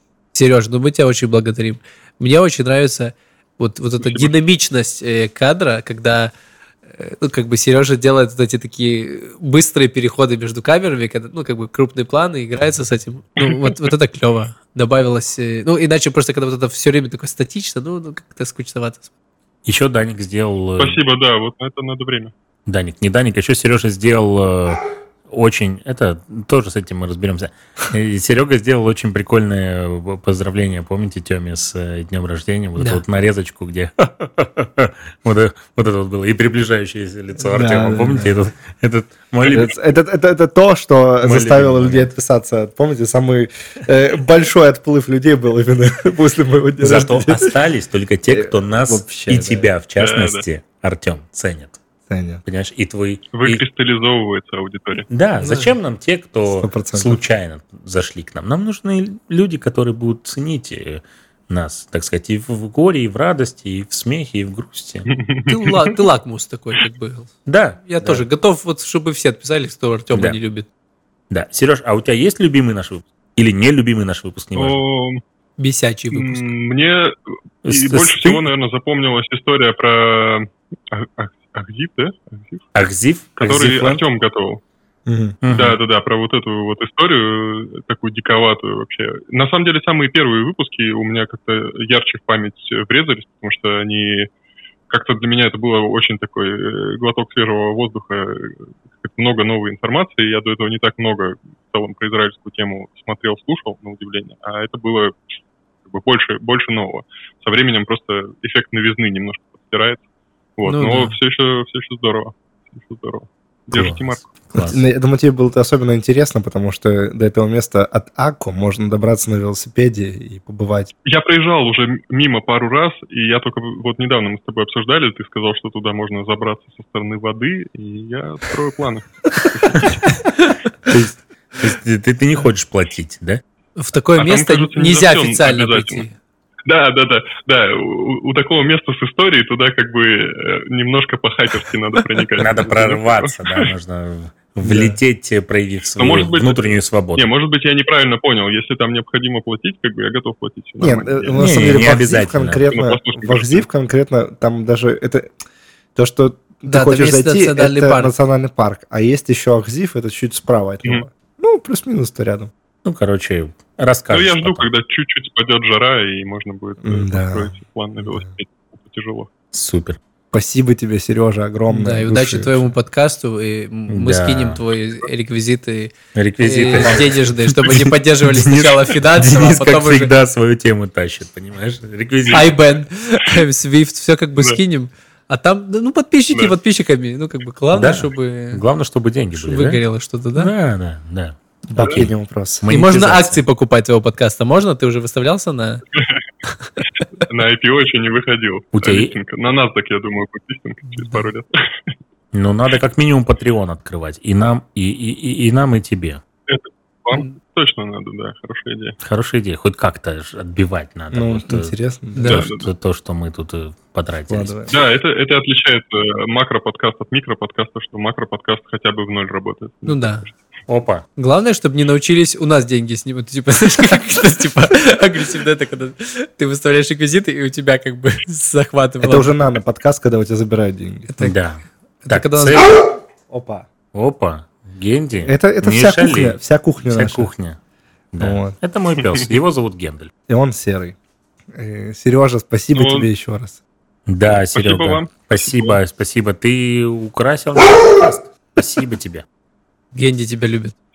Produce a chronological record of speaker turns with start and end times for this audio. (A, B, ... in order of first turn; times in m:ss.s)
0:00.3-0:06.3 A
0:04.0-0:04.3 B
0:06.9-0:19.1 A
0:19.6-0:21.0 C
0:20.8-0:22.3 B
0:22.7-0:39.8 C
0:32.8-0:33.0 A
0:37.4-0:38.4 D
0:39.4-0:47.5 D
0:41.2-0:42.1 C
0:46.8-0:51.8 C
0:48.3-0:49.7 D
0:50.0-0:50.4 B
0:52.1-0:52.4 D
0:52.4-0:53.6 C
0:53.3-0:55.1 B
0:55.1-1:05.1 C
0:55.4-0:55.7 A
0:56.5-0:57.2 D
1:05.1-1:05.9 B
1:05.5-1:07.3 A
1:07.5-1:08.2 C
1:07.8-1:10.7 A
1:10.1-1:10.4 C
1:11.3-1:14.8 C
1:14.6-1:15.2 B
1:15.6-1:16.5 A
1:16.1-1:22.6 B
1:17.6-1:18.5 C
1:22.8-1:24.0 C
1:23.4-1:24.6 B
1:25.1-1:25.4 D
1:25.4-1:25.8 C
1:25.5-1:34.3 B
1:34.9-1:45.2 B
1:45.8-1:50.0 B
1:50.6-1:54.3 B
1:50.7-1:51.2 A
1:53.7-1:54.8 C
1:54.6-2:00.9 D
2:01.1-2:10.0 B
2:10.9-2:13.4 C
2:13.8-2:16.1 A
2:14.2-2:16.1 B
2:16.7-2:23.7 B
2:22.4-2:27.3 C
2:24.6-2:25.0 D
2:26.0-2:26.6 B
2:27.2-2:31.5 B
2:30.8-2:35.3 D
2:31.4-2:32.7 C
2:32.7-2:33.6 B
2:36.0-2:42.5 D
2:36.7-2:38.1 A
2:42.8-2:44.7 C
2:44.1-2:49.3 B
2:46.8-2:47.5 D
2:49.5-2:50.0 C
2:50.3-2:52.7 D
2:51.7-3:00.1 A
2:53.9-2:54.6 C
2:56.2-3:02.6 C
3:02.3-3:08.6 A
3:07.7-3:09.8 C
3:09.3-3:10.5 A
3:10.4-3:13.4 C
3:11.7-3:12.6 D
3:12.7-3:15.8 A
3:17.3-3:21.9 B
3:18.7-3:19.1 C
3:20.9-3:21.3 A
3:22.3-3:26.2 C
3:26.5-3:29.0 B
3:29.0-3:34.7 C
3:31.1-3:32.4 D
3:32.2-3:32.4 A
3:32.3-3:32.7 B
3:34.3-3:34.7 D
3:34.7-3:40.4 B
3:39.8-3:40.2 A
3:40.7-3:41.0 C
3:41.2-3:49.3 A
3:49.0-3:51.1 D
3:51.1-3:51.4 A
3:51.2-3:52.9 C
3:52.0-3:52.7 A
3:53.3-3:53.7 D
3:53.9-3:57.6 C
3:55.2-3:57.3 D
3:58.1-4:00.1 C
3:58.2-3:58.6 D
4:00.3-4:01.0 D
4:01.5-4:03.6 D
4:02.8-4:03.1 B
4:04.1-4:09.2 C
4:04.5-4:05.8 B
4:09.9-4:10.8 A